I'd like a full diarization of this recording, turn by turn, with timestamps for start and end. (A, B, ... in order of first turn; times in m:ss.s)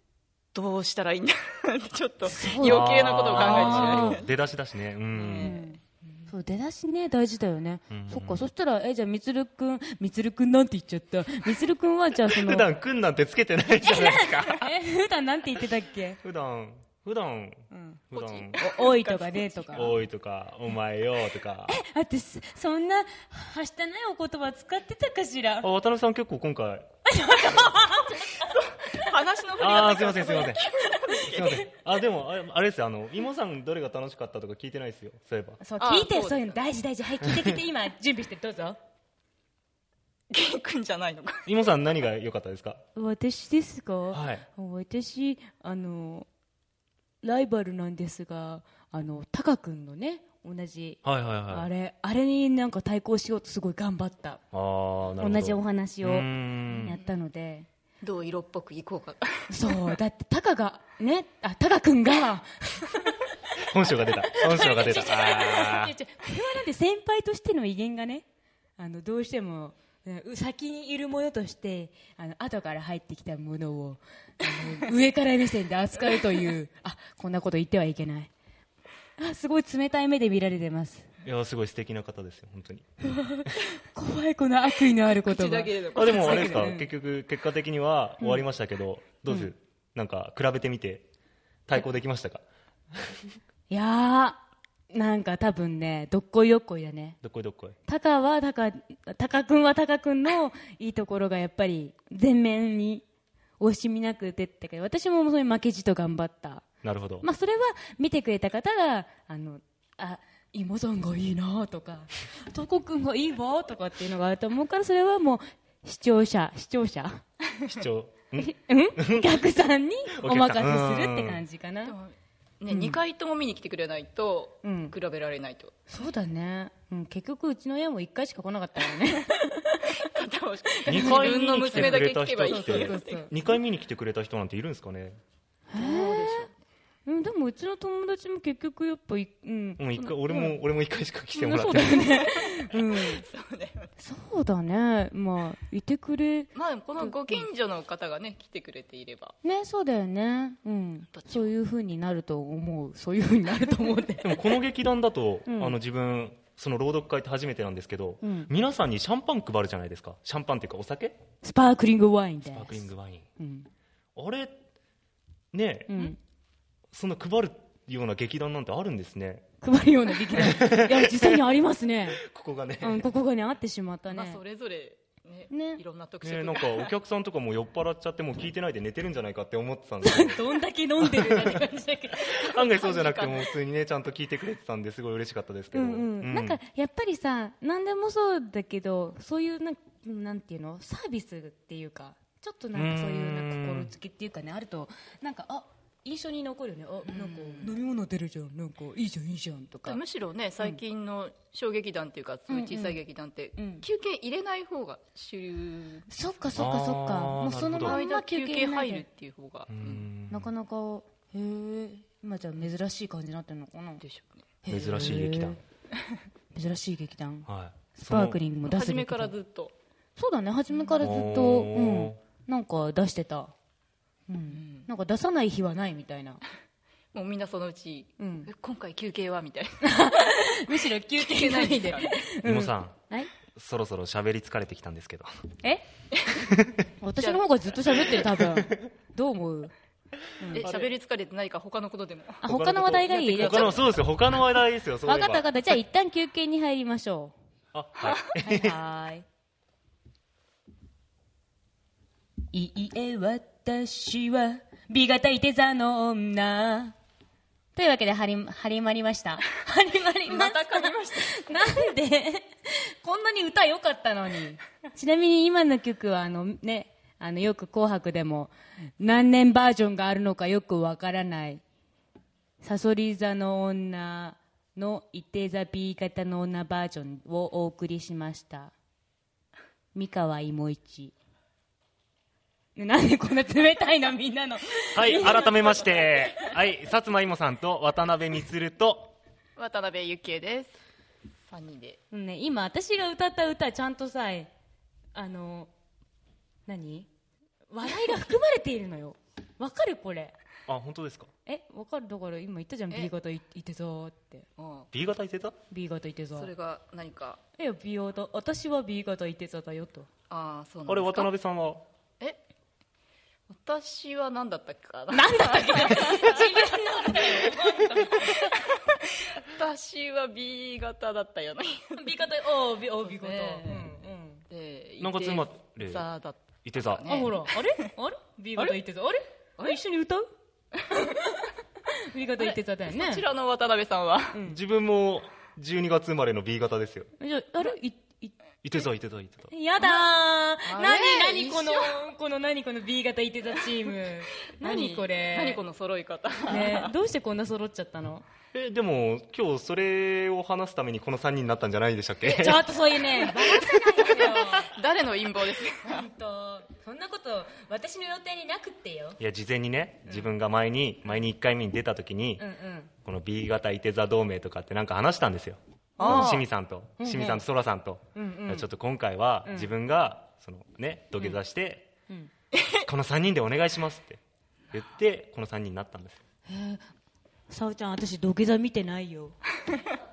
0:00.5-0:04.3 A
0:02.2-0:04.2 B
0:02.6-0:05.5 C
0:05.1-0:05.7 A
0:05.4-0:12.7 B
0:07.9-0:08.4 C
0:12.3-0:14.7 C
0:13.8-0:16.2 B
0:16.2-0:18.6 C
0:17.7-0:18.0 B
0:18.1-0:19.9 A
0:18.6-0:20.0 B
0:19.7-0:21.8 C
0:21.7-0:25.7 B
0:25.6-0:26.9 C
0:27.1-0:28.5 B
0:28.4-0:31.5 A
0:29.6-0:30.7 C
0:30.9-0:31.6 B
0:31.2-0:35.6 C
0:35.6-0:38.8 B
0:35.8-0:36.6 A
0:37.2-0:37.6 C
0:40.3-0:41.5 A
0:41.5-0:42.8 C
0:43.0-0:46.3 B
0:44.1-0:44.4 C
0:47.2-0:54.4 B
0:51.0-0:51.7 C
0:54.5-0:57.0 C
0:55.2-0:57.7 B
0:56.7-0:57.0 A
0:58.0-1:00.0 A
0:59.5-1:03.2 B
1:03.7-1:05.9 C
1:04.3-1:08.2 B
1:08.8-1:18.3 B
1:19.2-1:21.1 B
1:21.2-1:22.9 C
1:23.0-1:26.9 B
1:25.2-1:26.7 A
1:26.0-1:31.1 C
1:28.2-1:28.5 B
1:29.3-1:29.5 B
1:31.7-1:32.4 C
1:33.7-1:37.2 B
1:37.2-1:37.8 C
1:37.9-1:43.0 B
1:43.6-1:46.6 B
1:46.8-1:47.3 C
1:47.2-1:57.2 B
1:57.7-1:59.4 C
1:58.4-2:02.0 B
2:00.2-2:01.4 C
2:01.8-2:05.8 A
2:02.7-2:03.0 B
2:04.6-2:05.0 B
2:05.9-2:10.0 B
2:10.0-2:13.5 A
2:10.8-2:13.3 B
2:10.9-2:15.2 C
2:15.7-2:16.5 B
2:15.8-2:16.6 A
2:17.1-2:20.6 B
2:19.8-2:22.1 C
2:21.4-2:23.2 B
2:22.0-2:23.9 A
2:24.0-2:27.5 B
2:26.5-2:29.4 A
2:29.4-2:34.4 B
2:31.1-2:31.5 A
2:34.2-2:41.2 C
2:35.5-2:35.8 B
2:38.2-2:38.5 B
2:41.4-2:42.9 B
2:42.5-2:43.3 C
2:43.4-2:43.7 B
2:44.2-2:44.6 C
2:45.5-2:46.1 C
2:45.9-2:46.2 B
2:46.9-2:49.5 C
2:49.6-2:52.2 B
2:50.3-2:51.4 C
2:52.2-2:53.1 C
2:52.8-2:54.4 B
2:54.1-2:56.9 A
2:55.5-2:55.8 B
2:56.2-3:00.4 C
3:00.0-3:02.5 B
3:01.0-3:01.7 C
3:02.3-3:03.5 A
3:02.4-3:06.6 C
3:05.7-3:20.0 B
3:12.7-3:13.9 C
3:17.1-3:17.8 A
3:19.9-3:26.1 A
3:22.5-3:23.0 B
3:23.6-3:23.8 B
3:26.1-3:29.0 B
3:26.6-3:28.0 C
3:27.8-3:30.1 A
3:29.7-3:30.5 C
3:30.3-3:34.0 B
3:34.0-3:34.4 A
3:34.6-3:35.6 B
3:34.7-3:35.6 C
3:36.5-3:39.3 B
3:37.5-3:38.4 C
3:38.7-3:39.7 A
3:40.2-3:43.5 B
3:41.0-3:42.2 C
3:44.3-3:46.4 B
3:44.5-3:44.9 A
3:47.1-3:52.3 A
3:48.2-3:48.5 B
3:49.8-3:53.3 B
3:52.4-3:53.0 C
3:53.5-3:55.3 C
3:56.1-3:56.4 A
3:56.4-3:56.8 C
3:57.0-3:59.7 B
3:57.2-3:57.4 A
3:58.4-3:58.9 C
4:00.4-4:00.7 B
4:00.6-4:02.4 A
4:00.6-4:00.9 C
4:02.4-4:04.0 B
4:02.4-4:05.5 C
4:03.2-4:03.9 A
4:05.1-4:07.3 B
4:07.7-4:08.8 C
4:08.0-4:08.3 A
4:08.4-4:09.2 B
4:12.5-4:17.0 B
4:17.7-4:31.6 B
4:20.3-4:21.6 A
4:32.6-4:38.7 B
4:39.9-4:41.1 B
4:42.8-4:46.4 B
4:44.9-4:49.1 C
4:45.2-4:45.5 A
4:49.6-4:50.8 A
4:51.5-4:52.0 A
4:52.1-4:54.5 B
4:55.2-4:55.7 B
4:56.7-4:57.1 B
4:57.7-5:00.4 B
5:00.7-5:01.3 C
5:01.5-5:04.5 B
5:04.6-5:04.9 A
5:04.9-5:05.6 C
5:05.7-5:06.5 B
5:06.3-5:07.4 A
5:07.6-5:10.1 B
5:10.3-5:11.3 A
5:10.9-5:11.9 C
5:13.5-5:22.0 A
5:15.1-5:18.6 B
5:21.9-5:24.4 B
5:23.0-5:23.9 A
5:24.5-5:27.9 A
5:25.0-5:26.1 C
5:26.6-5:27.1 C
5:27.1-5:30.3 B
5:30.9-5:33.2 B
5:32.4-5:34.4 A
5:34.3-5:34.6 B
5:34.5-5:37.1 C
5:37.2-5:38.4 B
5:38.6-5:39.5 C
5:39.5-5:45.6 B
5:39.8-5:40.0 A
5:40.6-5:42.0 A
5:44.6-5:46.9 A
5:46.5-5:48.3 B
5:48.5-5:52.7 C
5:52.2-5:54.8 B
5:53.4-5:56.1 A
5:55.8-5:59.2 B
5:59.2-6:02.4 C
6:02.4-6:02.9 B
6:03.0-6:11.9 C
6:06.0-6:06.4 A
6:06.0-6:06.4 B
6:07.0-6:07.4 B
6:08.2-6:08.7 B
6:09.4-6:09.7 B
6:12.5-6:12.8 A
6:12.8-6:14.2 C
6:14.7-6:16.2 C
6:16.5-6:16.9 B
6:17.5-6:19.4 B